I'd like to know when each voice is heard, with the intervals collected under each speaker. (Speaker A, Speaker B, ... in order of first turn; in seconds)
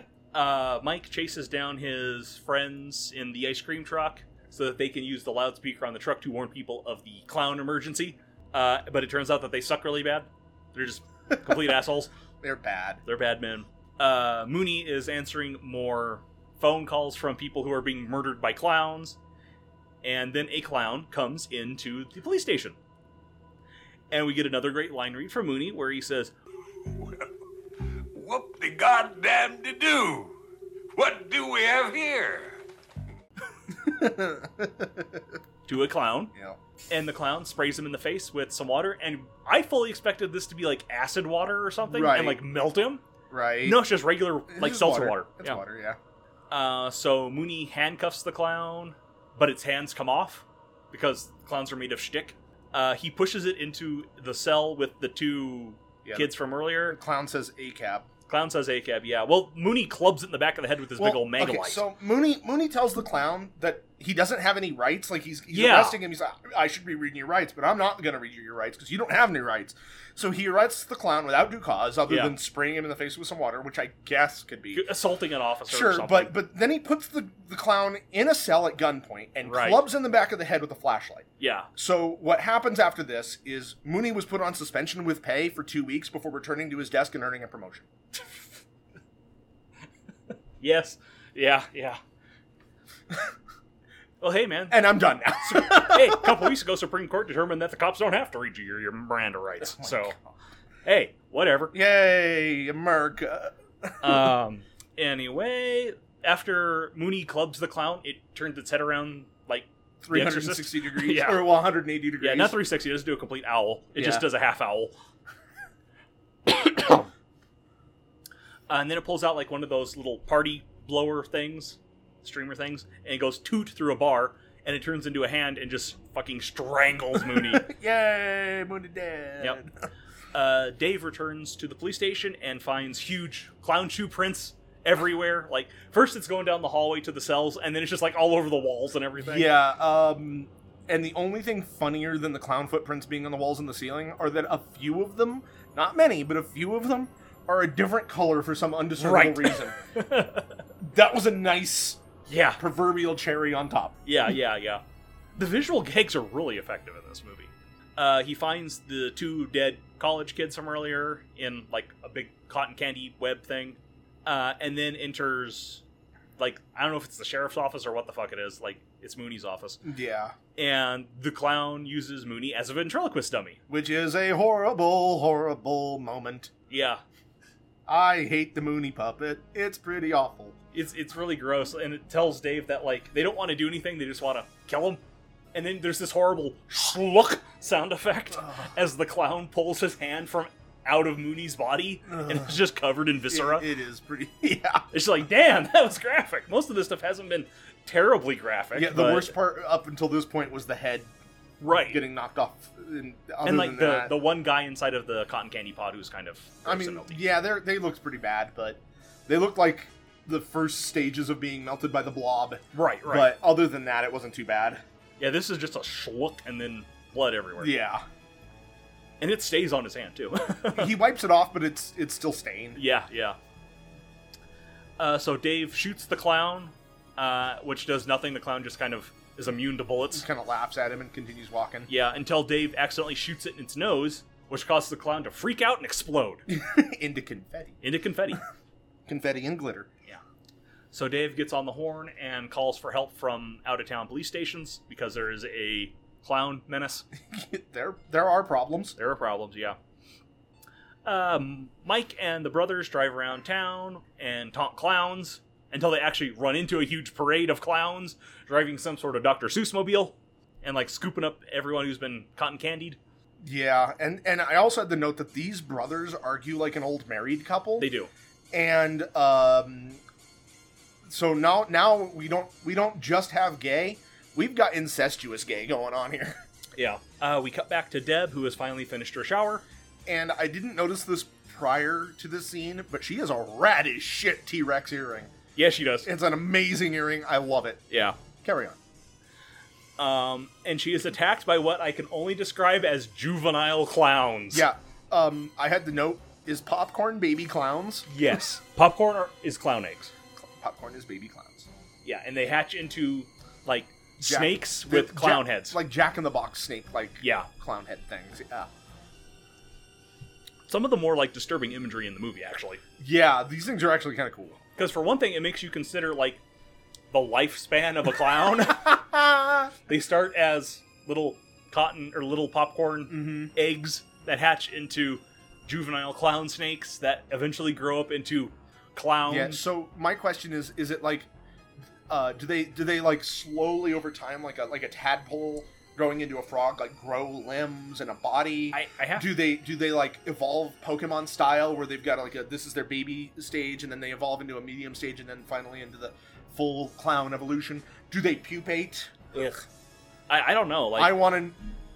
Speaker A: 0.3-12.1, 13.1-19.2, 20.0-22.8, 24.1-26.3, 35.7-36.3, 36.9-43.0, 43.6-45.6, 46.5-57.0, 58.3-61.8, 65.5-66.0, 72.1-72.3, 74.7-76.3, 79.4-79.8, 81.4-81.7, 90.6-92.0, 94.2-94.8, 95.4-100.2, 100.8-101.7, 104.0-111.5, 112.2-114.9, 116.8-117.0, 118.7-127.7, 130.3-139.5, 149.0-150.6, 152.3-152.6, 154.1-154.8, 155.4-165.8, 166.4-169.8, 170.6-173.6, 176.7-177.0, 180.7-185.0, 185.5-193.7, 194.9-199.3, 201.6-202.0, 203.4-207.2, 212.7-213.3, 215.2-217.7, 219.2-220.9, 222.8-223.4, 225.0-230.2, 231.9-236.4, 237.8-238.4, 240.9-247.1, 249.0-249.8, 251.0-263.0, 267.8-268.1, 276.8-279.6, 285.6-286.1, 287.9-288.2, 290.0-294.6, 298.1-300.1, 302.0-305.8, 307.2-307.5, 310.7-312.8, 314.8-316.4, 317.1-318.9, 319.9-329.6, 338.7-339.3, 349.3-349.6, 350.3-351.2
Speaker B: 12.4-13.0, 33.7-35.2, 41.8-42.4, 43.3-43.8, 44.5-46.0, 56.0-56.3, 56.9-58.1, 61.0-74.8, 75.7-87.9, 94.7-96.5, 99.8-100.0, 101.7-104.3, 110.0-112.6, 114.0-114.2, 127.2-129.7, 139.2-149.8, 150.8-152.0, 152.6-154.0, 169.8-170.3, 173.7-176.5, 177.9-180.6, 192.1-192.5, 193.3-194.9, 198.7-201.1, 201.8-204.1, 206.6-214.8, 217.6-218.0, 220.7-222.8, 230.1-231.9, 236.5-237.8, 239.1-239.9, 247.3-248.9, 263.4-267.9, 268.5-270.0, 271.1-276.4, 280.1-285.3, 286.0-288.8, 294.5-298.1, 300.3-301.7, 304.2-308.7, 313.0-314.6, 318.6-319.7, 323.1-323.5, 329.3-331.3, 332.1-349.3, 350.9-351.6
Speaker C: 28.1-30.3, 30.9-32.6